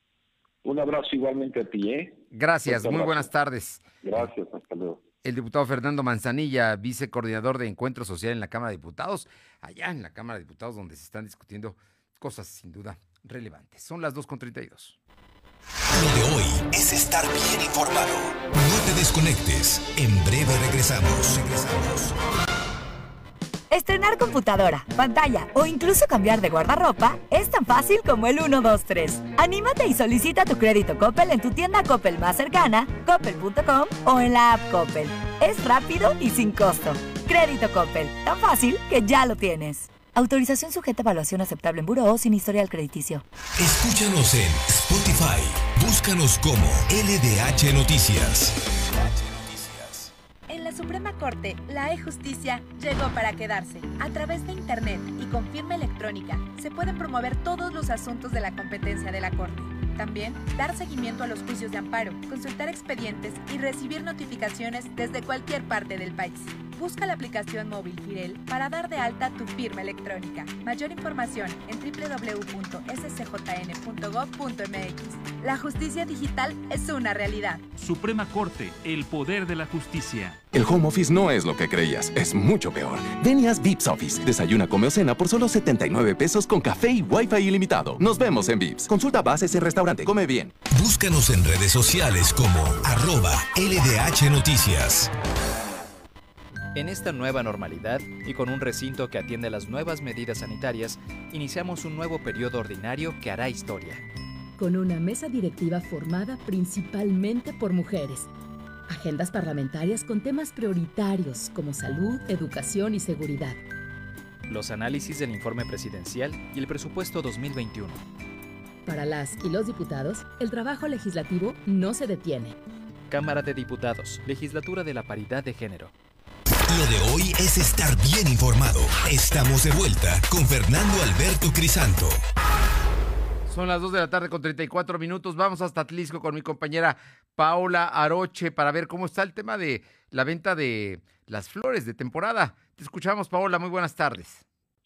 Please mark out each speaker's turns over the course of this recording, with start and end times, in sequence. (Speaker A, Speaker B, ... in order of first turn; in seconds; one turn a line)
Speaker A: 0.6-3.3
Speaker B: 2.3-4.2
Speaker A: 4.0-5.0
Speaker B: 5.2-14.9
Speaker C: 15.9-22.2
Speaker D: 23.7-43.2
Speaker C: 43.6-50.1
Speaker E: 50.5-77.6
Speaker F: 77.8-80.0
Speaker G: 80.5-90.5
Speaker C: 90.7-95.1
Speaker H: 96.7-104.0
Speaker I: 104.6-108.3
Speaker I: 108.9-113.6
Speaker H: 114.5-118.0
Speaker I: 118.8-122.5
Speaker H: 123.1-125.9
Speaker C: 126.7-132.2
Speaker B: 133.5-144.4